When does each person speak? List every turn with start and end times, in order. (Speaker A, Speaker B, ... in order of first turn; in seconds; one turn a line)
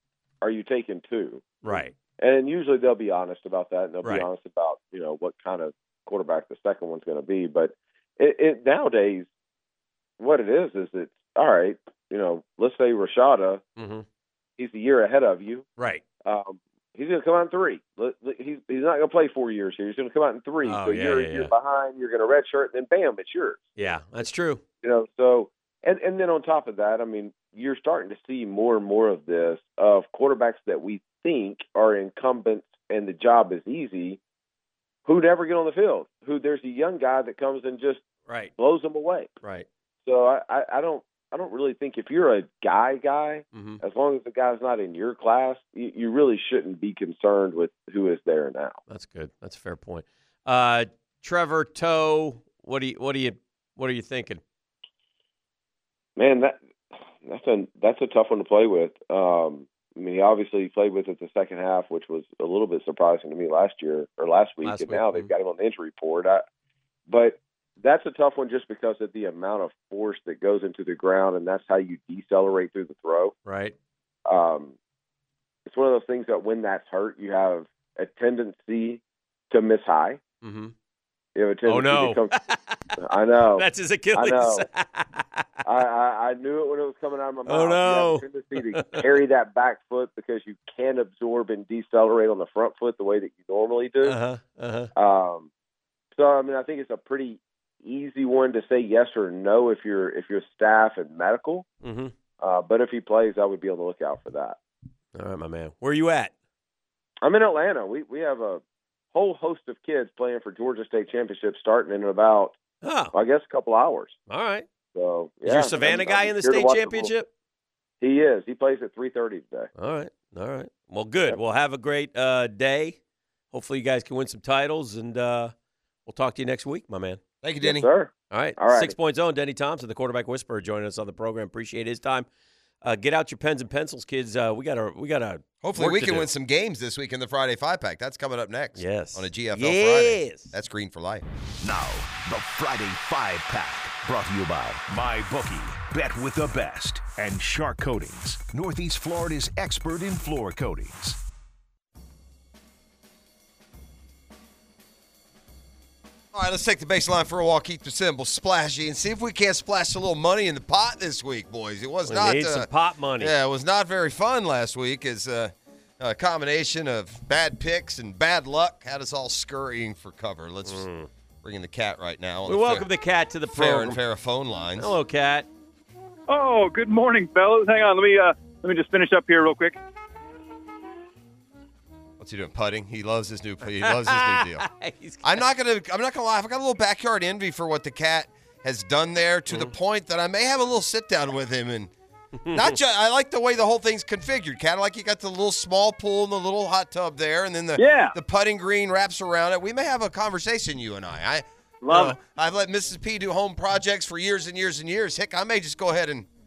Speaker A: 0.4-9.3
Speaker B: 1.6-1.9
Speaker A: 10.2-13.6
Speaker B: 13.8-14.1
Speaker A: 14.6-15.7
Speaker B: 15.8-16.0
Speaker A: 16.2-23.7
Speaker B: 20.6-21.5
Speaker B: 23.8-24.6
Speaker A: 24.8-34.2
Speaker A: 35.1-38.0
Speaker B: 38.3-38.5
Speaker A: 38.6-39.3
Speaker A: 40.0-48.8
Speaker B: 43.5-43.8
Speaker B: 48.9-54.4
Speaker A: 56.2-56.6
Speaker A: 57.1-66.4
Speaker B: 64.6-65.3
Speaker A: 67.1-73.3
Speaker B: 73.5-73.8
Speaker A: 74.3-74.8
Speaker A: 75.7-80.2
Speaker B: 80.4-80.7
Speaker A: 81.3-82.3
Speaker B: 81.7-83.0
Speaker A: 83.0-84.7
Speaker B: 83.5-85.5
Speaker A: 85.7-94.2
Speaker B: 87.5-89.1
Speaker B: 94.0-94.9
Speaker A: 95.0-95.5
Speaker A: 96.1-101.7
Speaker B: 101.8-102.1
Speaker A: 102.4-104.6
Speaker B: 105.2-106.3
Speaker A: 107.2-108.6
Speaker A: 109.1-112.6
Speaker B: 112.8-113.1
Speaker A: 113.1-114.2
Speaker B: 114.3-114.7
Speaker A: 114.9-117.1
Speaker B: 115.4-117.3
Speaker A: 118.0-119.7
Speaker B: 119.8-123.0
Speaker B: 123.5-125.5
Speaker B: 126.1-127.2
Speaker C: 127.4-127.9
Speaker A: 127.6-128.9
Speaker B: 128.3-132.3
Speaker B: 132.8-136.3
Speaker C: 135.6-141.3
Speaker B: 138.8-140.5
Speaker D: 141.6-151.2
Speaker C: 156.3-162.7
Speaker B: 162.1-163.3
Speaker C: 163.2-170.9
Speaker B: 170.7-171.1
Speaker C: 171.4-172.9
Speaker B: 172.5-174.0
Speaker C: 173.5-175.0
Speaker B: 174.8-175.5
Speaker E: 176.3-179.8
Speaker C: 182.2-184.7
Speaker B: 183.8-185.4
Speaker C: 185.2-191.9
Speaker B: 192.4-192.8
Speaker C: 192.5-206.3
Speaker E: 197.8-198.2
Speaker E: 201.8-202.2